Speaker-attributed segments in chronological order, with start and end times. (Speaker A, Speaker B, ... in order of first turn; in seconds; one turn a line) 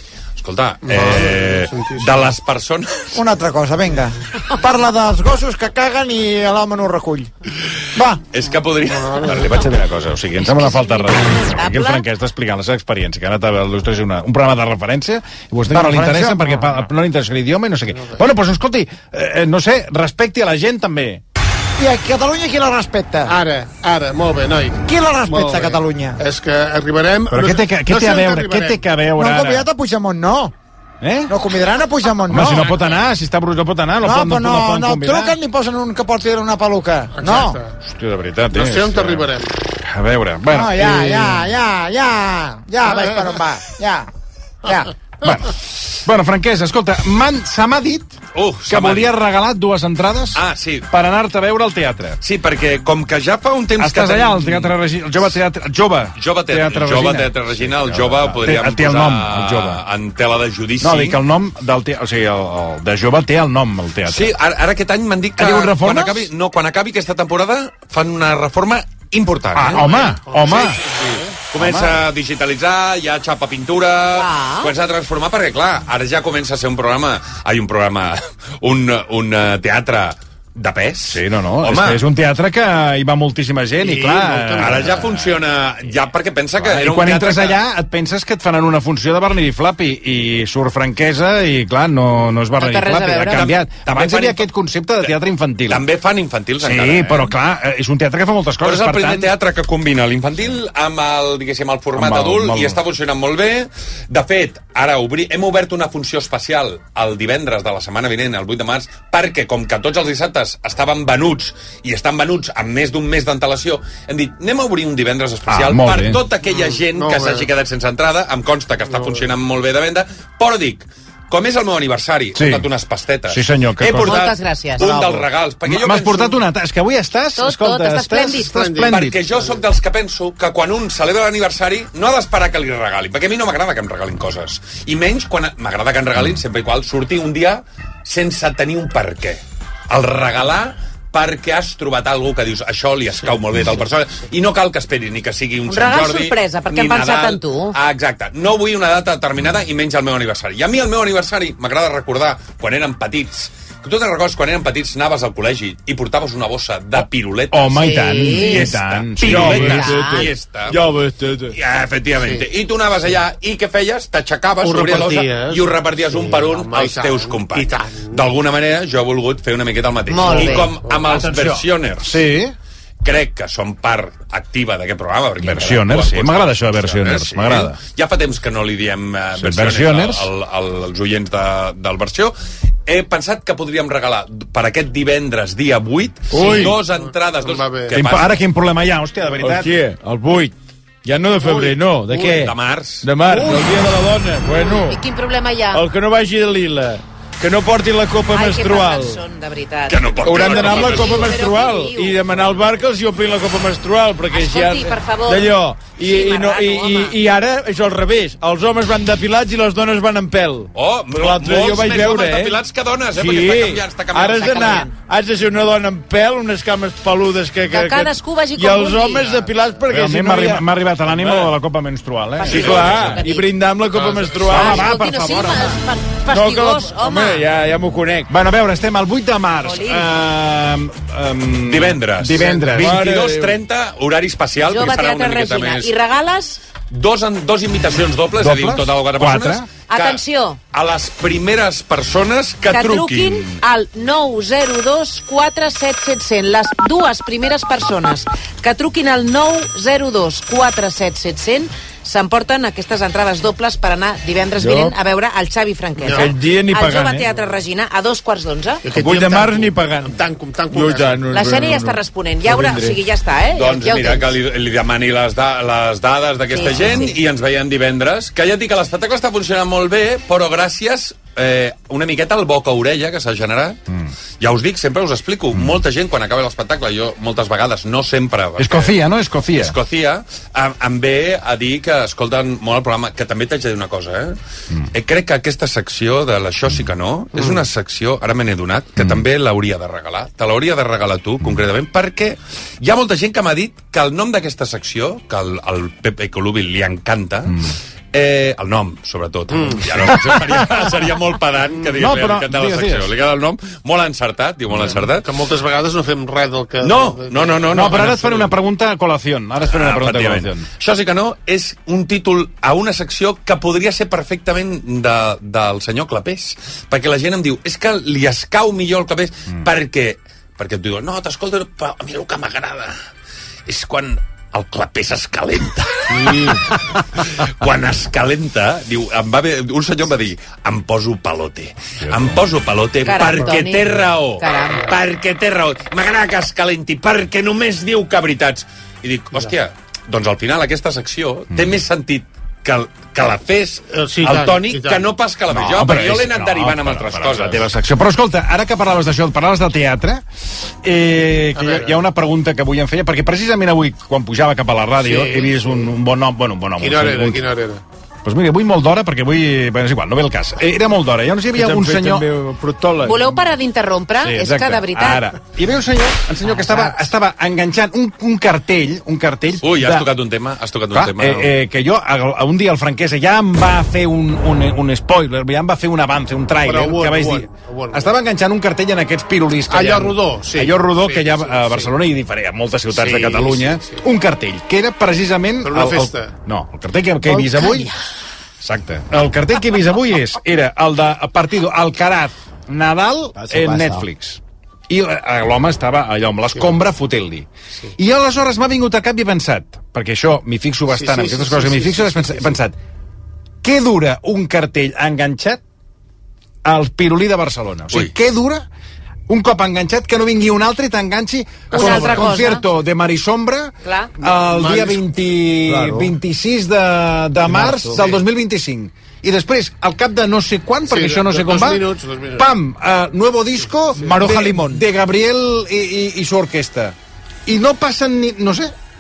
Speaker A: 0.4-3.2
Speaker B: 0.8-2.3
Speaker C: 3.1-7.3
Speaker C: 7.9-8.2
Speaker A: 8.3-9.7
Speaker B: 8.9-9.2
Speaker D: 9.3-21.2
Speaker E: 10.4-12.0
Speaker C: 15.7-16.7
Speaker C: 21.8-23.3
Speaker B: 23.2-28.8
Speaker C: 24.8-26.2
Speaker D: 27.3-29.7
Speaker C: 29.1-30.5
Speaker D: 31.0-31.3
Speaker C: 31.3-32.7
Speaker D: 32.3-35.4
Speaker C: 34.0-37.6
Speaker B: 37.1-37.7
Speaker D: 37.8-39.3
Speaker B: 38.5-39.5
Speaker D: 39.8-41.5
Speaker C: 40.5-44.1
Speaker B: 42.9-43.2
Speaker C: 44.6-44.9
Speaker D: 45.2-48.2
Speaker A: 48.3-49.1
Speaker D: 48.7-52.2
Speaker A: 50.3-50.9
Speaker A: 52.2-54.7
Speaker D: 53.8-59.8
Speaker A: 56.1-61.2
Speaker D: 60.8-64.3
Speaker A: 64.1-70.0
Speaker D: 65.4-66.3
Speaker D: 69.5-70.8
Speaker B: 69.7-71.4
Speaker A: 70.5-82.0
Speaker D: 71.6-72.0
Speaker E: 74.2-74.7
Speaker D: 81.1-85.3
Speaker B: 83.8-84.7
Speaker A: 84.6-87.6
Speaker D: 86.6-95.8
Speaker E: 92.6-93.5
Speaker A: 93.3-94.5
Speaker A: 95.7-97.3
Speaker D: 96.6-99.3
Speaker A: 98.6-126.4
Speaker D: 101.9-102.8
Speaker D: 115.5-116.2
Speaker B: 116.5-117.5
Speaker B: 118.9-119.2
Speaker D: 122.3-122.7
Speaker D: 123.3-124.2
Speaker E: 124.0-125.0
Speaker D: 125.7-129.2
Speaker E: 127.4-128.7
Speaker B: 128.5-129.6
Speaker A: 128.8-160.8
Speaker E: 145.7-147.7
Speaker D: 157.5-159.9
Speaker E: 157.8-158.7
Speaker F: 159.2-161.5
Speaker E: 159.6-160.3
Speaker A: 161.5-172.2
Speaker B: 162.2-162.4
Speaker B: 164.6-168.3
Speaker E: 170.1-170.8
Speaker B: 170.4-171.1
Speaker D: 172.0-172.5
Speaker A: 173.0-182.3
Speaker D: 175.4-177.8
Speaker D: 179.4-180.3
Speaker A: 182.8-188.4
Speaker F: 186.3-186.8
Speaker B: 186.4-187.9
Speaker D: 187.9-189.7
Speaker F: 189.4-195.0
Speaker A: 192.1-193.1
Speaker E: 193.3-193.6
Speaker E: 194.4-195.8
Speaker F: 195.7-199.2
Speaker E: 198.3-202.5
Speaker A: 199.9-201.4
Speaker F: 200.2-212.6
Speaker E: 204.3-207.2
Speaker A: 210.7-214.9
Speaker F: 213.1-220.6
Speaker E: 214.3-214.9
Speaker E: 217.7-219.5
Speaker D: 219.9-223.2
Speaker E: 222.4-223.5
Speaker A: 222.5-223.2
Speaker F: 222.5-225.1
Speaker B: 223.9-224.5
Speaker D: 224.4-225.7
Speaker E: 224.4-227.5
Speaker F: 226.2-228.3
Speaker D: 228.3-233.1
Speaker E: 229.6-230.1
Speaker A: 231.7-235.9
Speaker F: 232.5-233.6
Speaker E: 234.6-236.6
Speaker A: 236.9-243.6
Speaker D: 238.4-239.7
Speaker E: 239.9-240.6
Speaker E: 242.7-258.8
Speaker F: 254.6-254.9
Speaker B: 256.0-256.3
Speaker F: 256.1-257.2
Speaker B: 258.8-261.2
Speaker F: 258.9-260.1
Speaker F: 260.7-263.0
Speaker E: 261.3-264.3
Speaker A: 263.5-273.8
Speaker E: 266.5-267.2
Speaker A: 274.4-278.9
Speaker D: 278.6-279.8
Speaker A: 279.6-284.4
Speaker A: 284.9-305.3
Speaker D: 289.0-289.2
Speaker B: 299.5-299.8
Speaker D: 300.0-300.4
Speaker D: 301.9-303.1
Speaker D: 304.7-305.0
Speaker B: 305.1-307.7
Speaker A: 306.8-308.5
Speaker D: 307.7-310.6
Speaker A: 309.7-322.9
Speaker A: 323.7-326.5
Speaker A: 327.4-347.7
Speaker E: 333.0-334.9
Speaker D: 341.5-341.8
Speaker B: 343.9-345.1
Speaker D: 345.5-350.2
Speaker D: 350.8-357.4
Speaker B: 351.5-352.0
Speaker B: 355.0-355.9
Speaker B: 356.8-357.8
Speaker D: 358.2-362.3
Speaker F: 361.5-363.4
Speaker E: 363.0-365.3
Speaker D: 364.2-370.1
Speaker A: 369.6-371.5
Speaker D: 370.9-387.9
Speaker B: 376.6-378.1
Speaker B: 379.7-381.9
Speaker B: 382.9-384.0
Speaker B: 385.6-386.3
Speaker D: 388.6-402.8
Speaker F: 393.4-394.0
Speaker B: 396.5-396.8
Speaker B: 400.9-402.6
Speaker D: 403.6-405.6
Speaker D: 406.6-408.6
Speaker D: 409.3-421.8
Speaker E: 411.7-412.6
Speaker B: 411.8-412.2
Speaker E: 413.8-414.1
Speaker B: 414.5-415.0
Speaker F: 415.6-416.1
Speaker F: 417.4-418.1
Speaker B: 417.9-418.2
Speaker B: 420.9-422.5
Speaker D: 422.4-428.7
Speaker F: 424.1-424.7